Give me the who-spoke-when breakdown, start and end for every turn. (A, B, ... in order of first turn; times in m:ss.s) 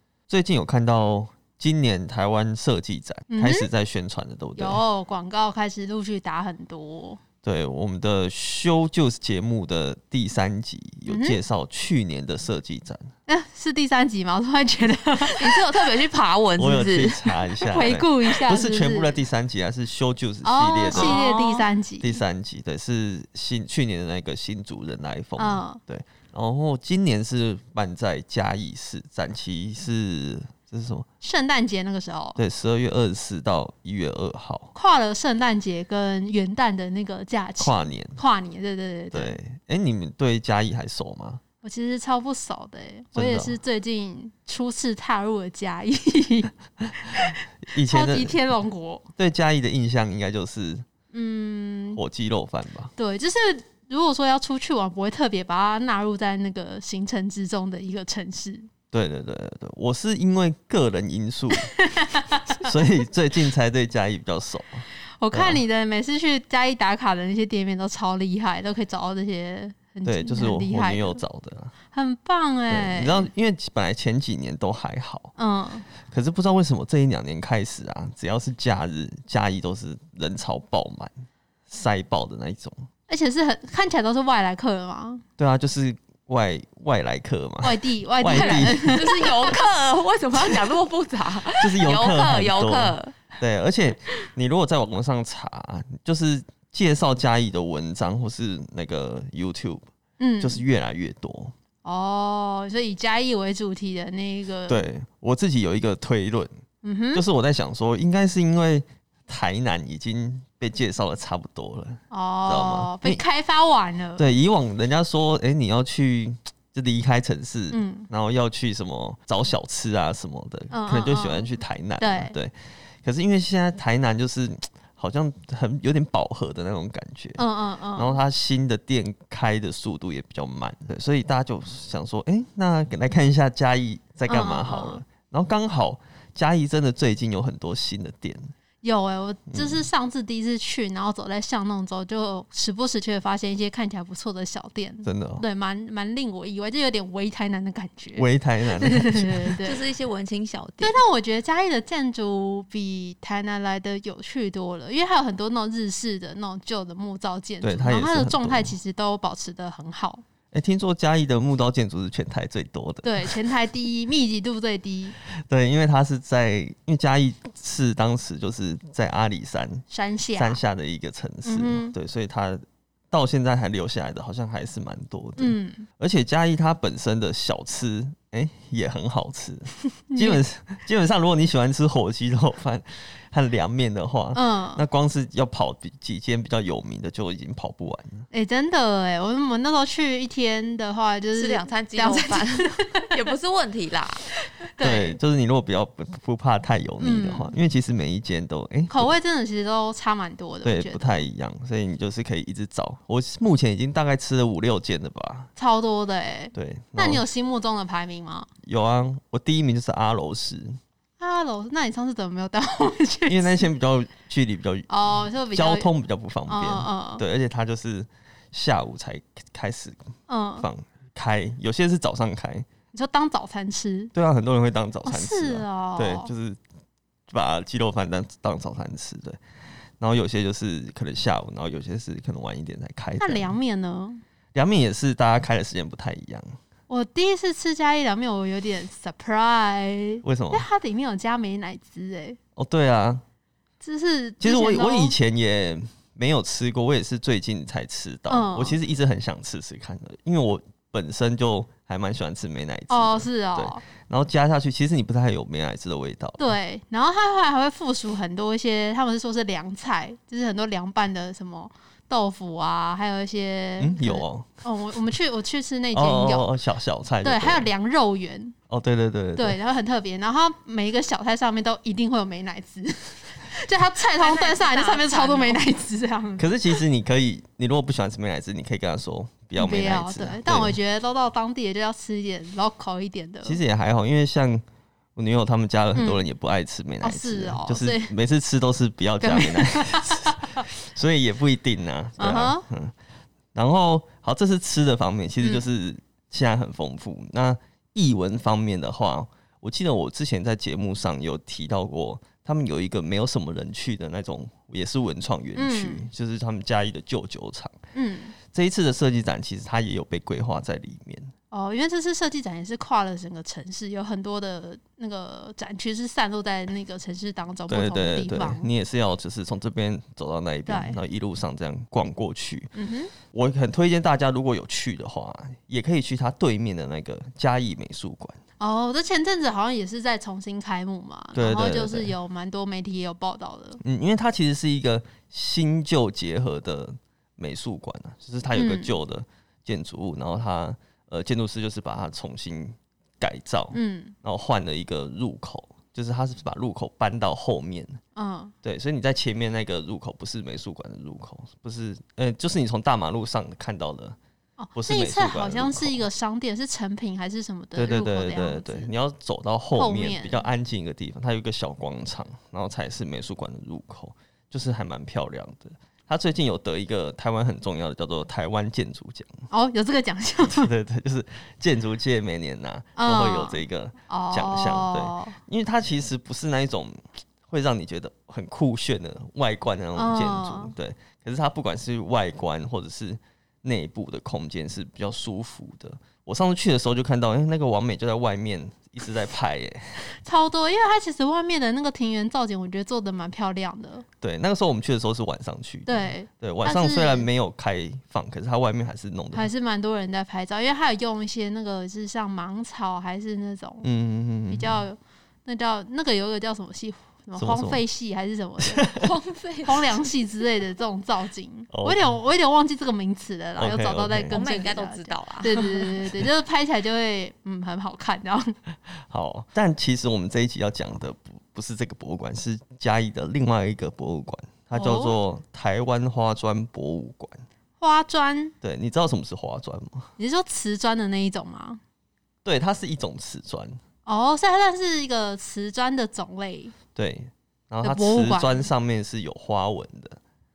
0:00.3-0:04.8 A
0:03.3-0:03.7 B
0:04.6-0:07.2 B
0:07.4-0:13.1 A
0:11.1-0:11.4 B
0:13.3-0:15.9 B
0:15.2-0:17.4 C
0:16.6-0:21.2 A
0:17.6-0:19.2 B
0:20.4-0:22.2 B
0:20.9-0:21.7 C
0:22.0-0:31.1 A
0:25.4-0:25.8 B
0:31.2-0:32.4 B
0:32.4-0:34.7 A
0:34.8-0:39.4 B
0:37.6-0:38.2 A
0:39.1-0:41.4 A
0:41.6-0:49.1 B
0:43.1-0:43.6 A
0:47.1-0:48.4 A
0:49.2-0:50.9 A
0:51.1-0:52.0 B
0:52.0-0:52.9 A
0:53.0-0:58.7 B
0:58.9-1:01.7 A
1:01.7-1:02.7 B
1:02.6-1:05.6 A
1:05.2-1:11.2 B
1:10.0-1:11.8 A
1:11.9-1:13.3 B
1:12.7-1:15.3 A
1:15.4-1:15.9 B
1:16.0-1:21.1 A
1:21.7-1:22.9 A
1:23.1-1:25.2 B
1:25.4-1:29.1 A
1:27.6-1:29.5 B
1:28.3-1:33.4 C
1:31.6-1:39.9 A
1:40.2-1:40.6 B
1:40.4-1:41.5 A
1:41.8-1:44.8 B
1:44.7-1:46.5 A
1:46.8-1:47.2 B
1:47.1-1:53.2 A
1:52.1-1:54.3 B
1:54.2-2:07.4 A
1:57.7-1:58.1 B
2:00.7-2:01.5 B
2:02.0-2:02.4 B
2:07.4-2:08.2 B
2:08.0-2:18.5 A
2:14.3-2:15.0 B
2:18.8-2:29.8 B
2:19.5-2:19.9 A
2:25.0-2:25.4 A
2:28.2-2:29.5 A
2:29.6-2:31.0 C
2:30.8-2:40.2 B
2:37.6-2:38.7 A
2:40.5-2:43.4 A
2:43.0-2:45.2 B
2:45.4-2:49.8 A
2:49.9-2:50.6 B
2:50.4-3:08.3 A
2:51.4-2:51.9 B
2:55.4-2:55.9 B
3:00.1-3:00.4 B
3:04.3-3:04.8 B
3:08.3-3:13.1 B
3:11.4-3:14.3 C
3:14.7-3:15.2 B
3:14.8-3:19.1 A
3:17.0-3:17.5 B
3:18.9-3:21.2 B
3:20.6-3:25.5 A
3:25.6-3:28.5 B
3:26.5-3:27.2 A
3:28.6-3:30.8 A
3:31.2-3:33.7 B
3:33.3-3:34.9 A
3:34.9-3:35.9 B
3:35.5-3:40.0 A
3:36.5-3:37.2 B
3:40.3-3:40.7 B
3:40.6-3:42.7 A
3:42.9-3:44.1 B
3:44.1-3:46.6 A
3:45.1-3:46.3 B
3:47.3-3:49.4 A
3:50.0-3:53.5 A
3:53.2-3:54.2 B
3:54.5-3:56.6 A
3:56.9-4:02.4 B
4:00.2-4:00.7 A
4:02.6-4:03.2 A
4:03.8-4:05.2 B
4:04.4-4:16.5 A
4:08.3-4:08.8 B
4:12.9-4:13.8 B
4:16.4-4:26.5 B
4:23.8-4:24.5 A
4:25.9-4:27.7 A
4:27.2-4:28.6 B
4:28.7-4:29.6 A
4:29.4-4:36.8 B
4:34.2-4:35.6 C
4:36.4-4:40.8 A
4:39.6-4:43.6 B
4:43.4-4:44.6 A
4:45.2-4:52.9 A
4:46.0-4:46.2 B
4:47.0-4:48.1 B
4:49.2-4:50.6 B
4:52.2-4:52.6 B
4:53.6-5:07.8 A
5:05.6-5:06.1 B
5:08.0-5:08.3 B
5:08.5-5:11.3 A
5:11.5-5:18.7 B
5:17.7-5:22.7 A
5:20.7-5:21.0 B
5:22.8-5:23.1 B
5:23.3-5:28.4 A
5:28.6-5:33.8 B
5:31.4-5:32.1 A
5:33.8-5:48.0 A
5:38.6-5:39.0 B
5:43.7-5:44.2 B
5:48.2-5:48.5 B
5:48.6-5:54.2 A
5:54.6-5:58.9 B
5:54.8-5:56.1 A
5:57.8-6:09.3 A
5:59.8-6:00.4 B
6:09.5-6:10.7 B
6:10.4-6:30.0 A
6:13.0-6:15.4 B
6:20.0-6:20.7 B
6:30.2-6:34.0 B
6:34.2-6:39.5 A
6:35.9-6:37.3 B
6:39.3-6:43.9 B
6:43.8-6:44.8 A
6:44.5-6:48.9 B
6:47.4-6:47.8 A
6:48.6-6:49.1 A
6:49.0-6:50.0 C
6:49.6-6:58.5 B
6:51.7-6:52.0 A
6:53.6-6:54.4 A
6:54.3-6:56.0 C
6:59.1-7:07.4 A
7:04.7-7:05.2 B
7:07.8-7:08.5 B
7:08.6-7:10.1 A
7:10.2-7:11.8 B
7:12.4-7:13.8 A
7:14.1-7:16.7 B
7:17.0-7:20.2 A
7:17.8-7:18.7 B